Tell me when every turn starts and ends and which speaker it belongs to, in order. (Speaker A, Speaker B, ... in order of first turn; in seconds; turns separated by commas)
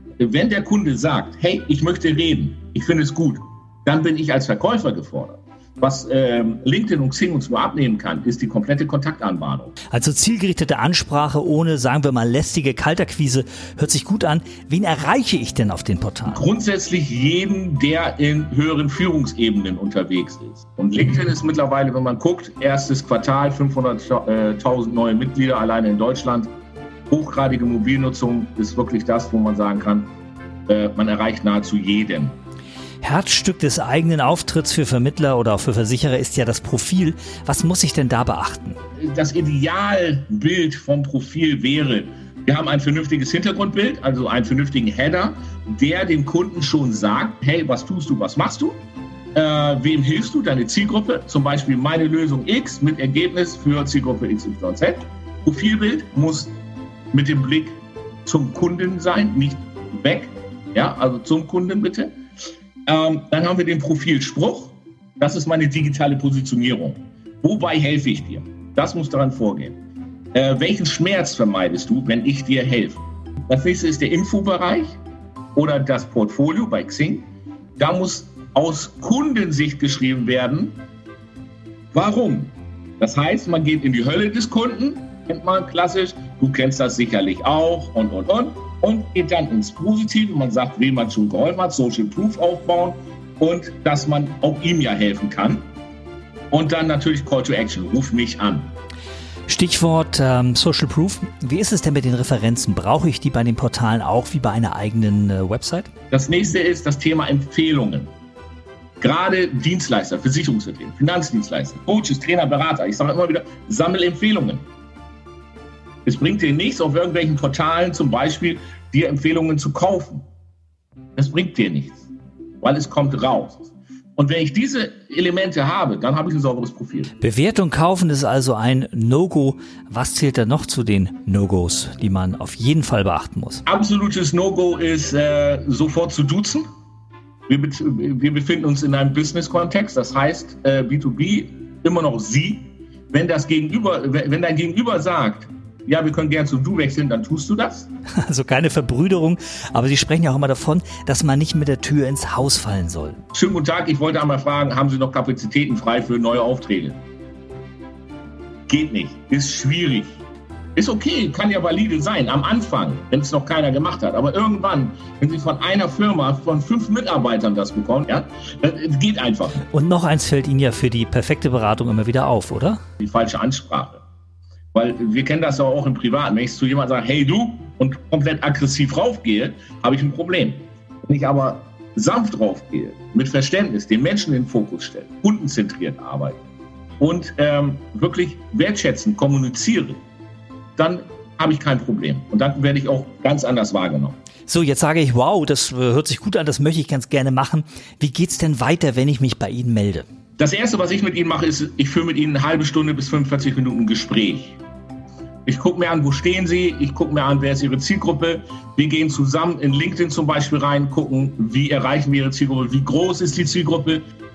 Speaker A: 0.2-9.7, Speaker B: 9.9-16.4, Speaker A: 16.3-26.5, Speaker A: 27.1-30.1, Speaker A: 30.7-32.4, Speaker B: 33.0-38.8, Speaker A: 39.0-48.8, Speaker A: 49.4-56.5, Speaker A: 57.1-62.1, Speaker A: 62.9-69.8, Speaker A: 70.3-75.0, Speaker A: 75.5-77.3, Speaker A: 77.8-80.8, Speaker A: 81.9-95.6, Speaker A: 96.5-98.7, Speaker B: 99.5-105.9, Speaker A: 106.1-108.1, Speaker A: 109.0-114.6, Speaker A: 116.1-120.2, Speaker A: 121.2-122.1, Speaker A: 122.6-127.1, Speaker B: 127.2-133.6, Speaker A: 133.7-136.7, Speaker A: 137.5-147.9, Speaker B: 148.2-153.2, Speaker A: 153.3-157.0, Speaker A: 158.7-160.2, Speaker A: 160.8-169.6, Speaker B: 169.7-172.8, Speaker A: 173.0-174.0, Speaker A: 174.7-186.4, Speaker A: 187.0-190.0, Speaker A: 190.8-194.2, Speaker B: 194.5-200.1, Speaker A: 200.4-204.6, Speaker A: 205.5-214.0